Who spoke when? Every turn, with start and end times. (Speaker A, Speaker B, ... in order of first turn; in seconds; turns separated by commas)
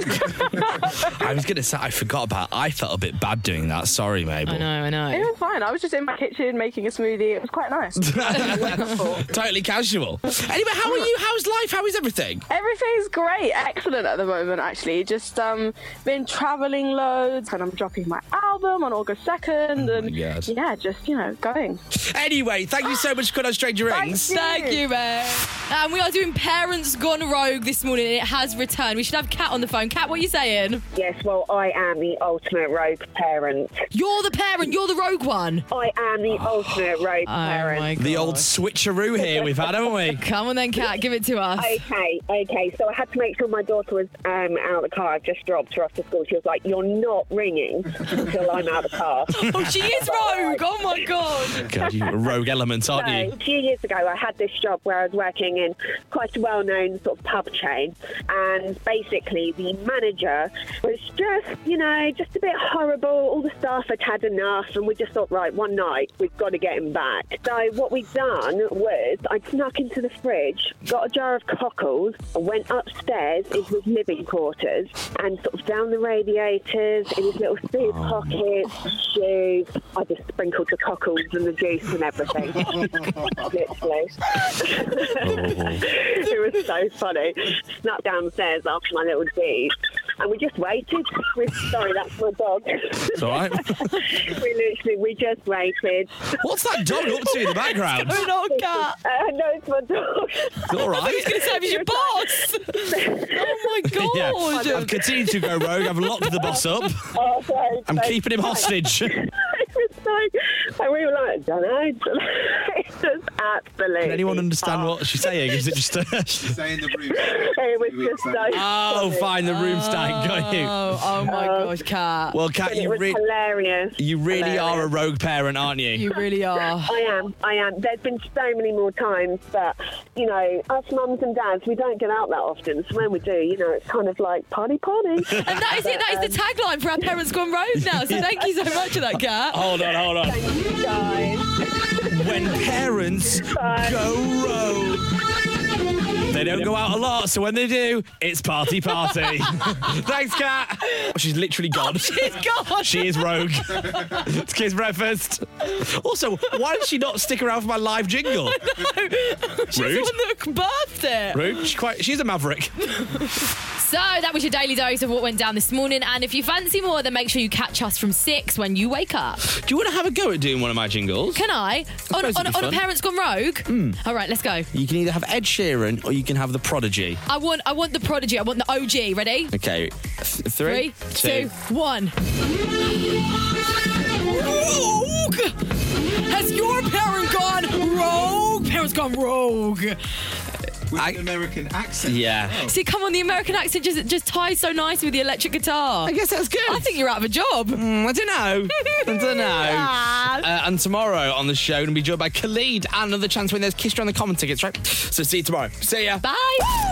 Speaker A: 0.6-4.7, Speaker B: 4.5-5.3, Speaker C: 5.1-9.2, Speaker A: 8.0-12.4, Speaker C: 12.5-20.0, Speaker A: 19.8-20.5, Speaker C: 20.5-21.8, Speaker A: 21.9-24.4, Speaker C: 24.0-24.7, Speaker B: 24.3-30.8, Speaker D: 30.9-33.8, Speaker B: 33.9-35.7, Speaker D: 35.7-37.9, Speaker B: 37.2-38.5, Speaker A: 38.0-40.2, Speaker D: 39.1-39.8, Speaker B: 40.1-41.8, Speaker D: 41.6-51.0, Speaker B: 49.3-51.7, Speaker D: 51.6-52.3, Speaker A: 51.6-53.3, Speaker D: 52.9-96.3, Speaker A: 77.8-78.4, Speaker A: 85.2-85.9, Speaker A: 93.1-93.9, Speaker A: 96.4-98.2, Speaker B: 97.2-99.0, Speaker D: 98.1-102.3, Speaker A: 100.7-101.3, Speaker B: 100.8-106.5, Speaker D: 102.9-103.5, Speaker A: 103.9-107.0, Speaker D: 104.5-105.3, Speaker D: 106.4-115.7, Speaker A: 107.8-109.2, Speaker A: 114.0-116.6, Speaker E: 116.4-118.6, Speaker D: 117.0-119.3, Speaker A: 118.5-120.8, Speaker B: 119.4-122.4, Speaker D: 121.2-121.8, Speaker A: 122.3-123.2, Speaker D: 122.6-124.9, Speaker A: 124.0-126.1, Speaker B: 125.9-126.9, Speaker D: 126.8-136.4, Speaker B: 135.4-139.6, Speaker A: 137.8-138.2, Speaker A: 139.5-140.4, Speaker D: 139.7-141.9, Speaker A: 142.1-145.1, Speaker D: 143.4-144.9, Speaker A: 146.3-158.6, Speaker B: 149.1-149.8, Speaker B: 151.8-154.2, Speaker B: 158.3-161.7, Speaker A: 159.7-160.1, Speaker A: 161.3-162.7, Speaker B: 163.0-169.5, Speaker A: 169.5-171.4, Speaker B: 171.3-174.7, Speaker A: 172.1-172.8, Speaker A: 173.7-174.0, Speaker A: 174.7-177.2, Speaker B: 177.3-179.5, Speaker A: 179.5-181.5, Speaker B: 180.6-182.1, Speaker B: 184.2-185.5, Speaker B: 186.2-190.0, Speaker E: 190.9-192.7, Speaker A: 190.9-191.4, Speaker A: 192.0-192.7, Speaker B: 192.6-197.8, Speaker A: 196.0-196.9, Speaker A: 197.7-206.2, Speaker B: 198.7-200.5, Speaker B: 206.2-206.7